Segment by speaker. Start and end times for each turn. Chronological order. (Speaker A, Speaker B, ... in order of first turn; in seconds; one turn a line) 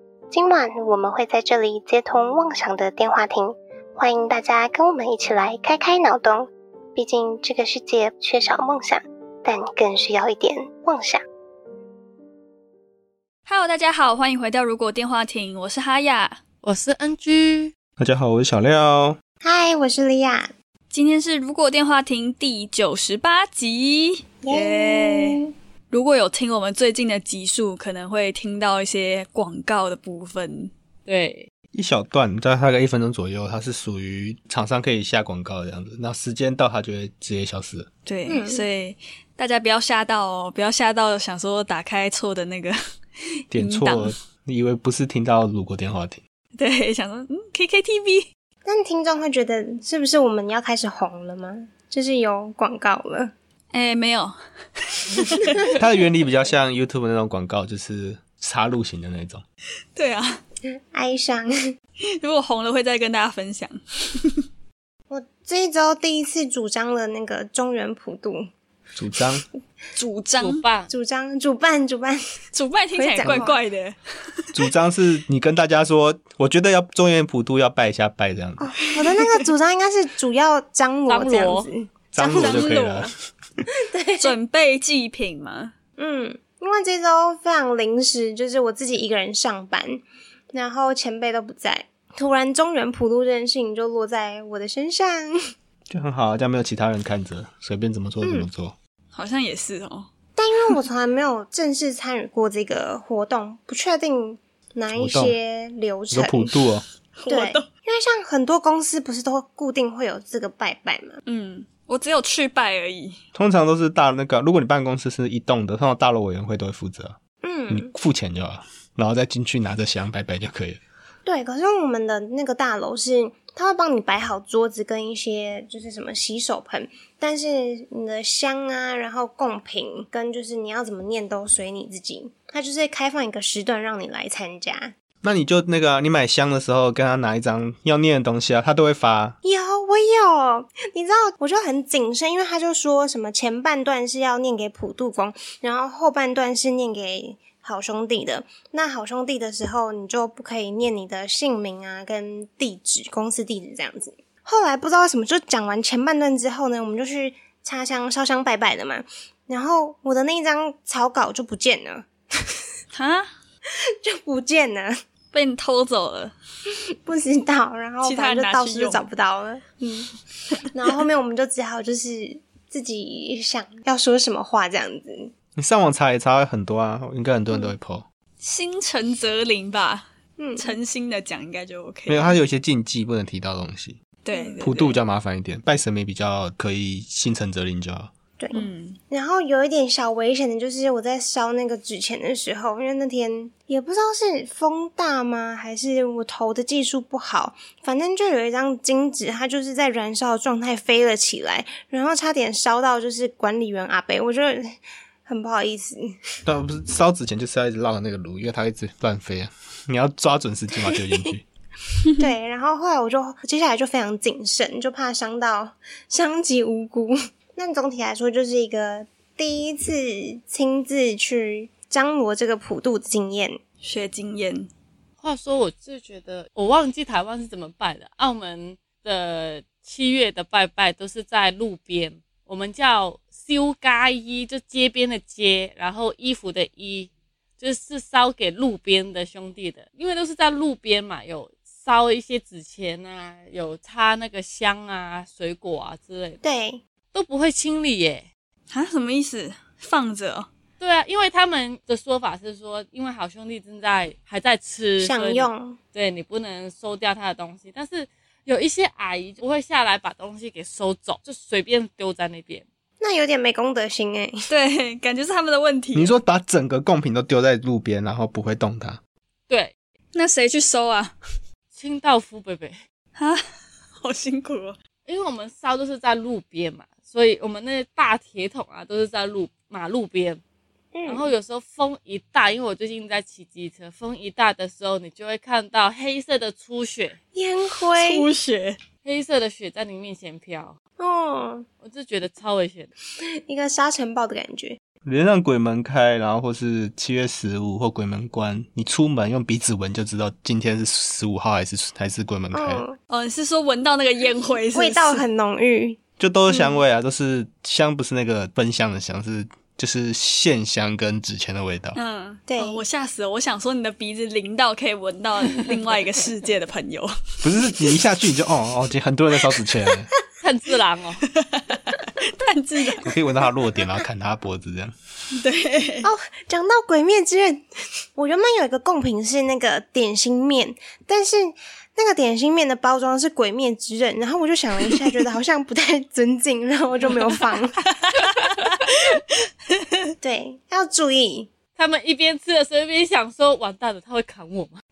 Speaker A: 0.3-11.2
Speaker B: 13.4-16.4
Speaker C: 16.6-17.7
Speaker D: 18.0-19.2
Speaker E: 19.4-20.5
Speaker B: 20.9-30.7
Speaker E: 24.4-25.5
Speaker C: 31.1-31.5
Speaker D: 31.7-37.9
Speaker B: 38.0-42.8
Speaker E: 38.3-38.6
Speaker D: 43.5-46.2
Speaker B: 43.5-44.1
Speaker B: 46.6-48.3
Speaker E: 48.6-53.3
Speaker B: 53.7-55.7
Speaker D: 55.8-59.4
Speaker B: 60.0-60.4
Speaker E: 60.9-61.5
Speaker B: 62.2-64.4
Speaker E: 65.1-68.5
Speaker D: 69.0-69.4
Speaker B: 70.0-70.6
Speaker C: 70.4-70.9
Speaker E: 70.9-72.2
Speaker B: 72.5-74.4
Speaker E: 73.0-73.6
Speaker D: 74.5-78.7
Speaker E: 78.6-82.8
Speaker C: 81.1-81.7
Speaker D: 82.1-83.1
Speaker B: 82.2-83.1
Speaker E: 83.8-84.3
Speaker B: 84.2-85.7
Speaker E: 86.0-95.3
Speaker D: 95.9-98.7
Speaker E: 98.2-98.5
Speaker B: 99.1-100.1
Speaker E: 100.4-106.5
Speaker D: 104.9-105.4
Speaker D: 106.1-106.8
Speaker B: 107.2-107.7
Speaker E: 107.3-111.2
Speaker B: 111.2-113.2
Speaker D: 113.3-117.2
Speaker E: 117.4-117.9
Speaker D: 117.7-120.8
Speaker E: 121.2-134.9
Speaker D: 135.2-139.4
Speaker E: 139.4-162.5
Speaker B: 162.9-163.3
Speaker E: 163.9-164.9
Speaker B: 165.3-166.3
Speaker E: 167.0-170.1
Speaker B: 168.0-169.0
Speaker E: 170.7-175.3
Speaker D: 175.6-178.0
Speaker B: 178.4-182.4
Speaker E: 180.4-180.8
Speaker D: 182.1-184.0
Speaker B: 184.2-185.0
Speaker E: 184.3-184.6
Speaker D: 184.6-188.1
Speaker E: 188.4-206.1
Speaker B: 188.5-189.0
Speaker D: 206.4-211.4
Speaker E: 212.2-223.6
Speaker B: 223.8-224.7
Speaker C: 225.2-246.4
Speaker E: 246.4-246.8
Speaker C: 247.1-248.2
Speaker B: 248.7-250.5
Speaker C: 250.8-262.6
Speaker E: 255.0-255.8
Speaker E: 263.0-264.5
Speaker B: 264.5-266.1
Speaker D: 265.9-269.0
Speaker C: 269.5-269.7
Speaker B: 270.1-271.1
Speaker C: 271.7-272.8
Speaker B: 273.1-273.4
Speaker B: 274.0-274.8
Speaker C: 275.1-280.4
Speaker E: 280.9-281.3
Speaker C: 281.1-287.2
Speaker E: 287.3-288.3
Speaker B: 287.9-288.8
Speaker C: 289.0-290.7
Speaker E: 291.0-291.6
Speaker C: 291.8-292.9
Speaker E: 293.2-294.8
Speaker D: 295.0-302.8
Speaker E: 302.5-302.9
Speaker B: 303.1-305.2
Speaker E: 304.7-306.0
Speaker D: 306.2-312.0
Speaker E: 306.5-306.8
Speaker B: 311.9-317.1
Speaker E: 312.5-312.8
Speaker D: 317.4-320.1
Speaker C: 320.4-321.2
Speaker B: 321.4-323.1
Speaker D: 323.1-324.9
Speaker B: 325.3-326.1
Speaker E: 326.0-337.8
Speaker B: 337.8-339.2
Speaker E: 340.2-341.5
Speaker C: 341.8-344.8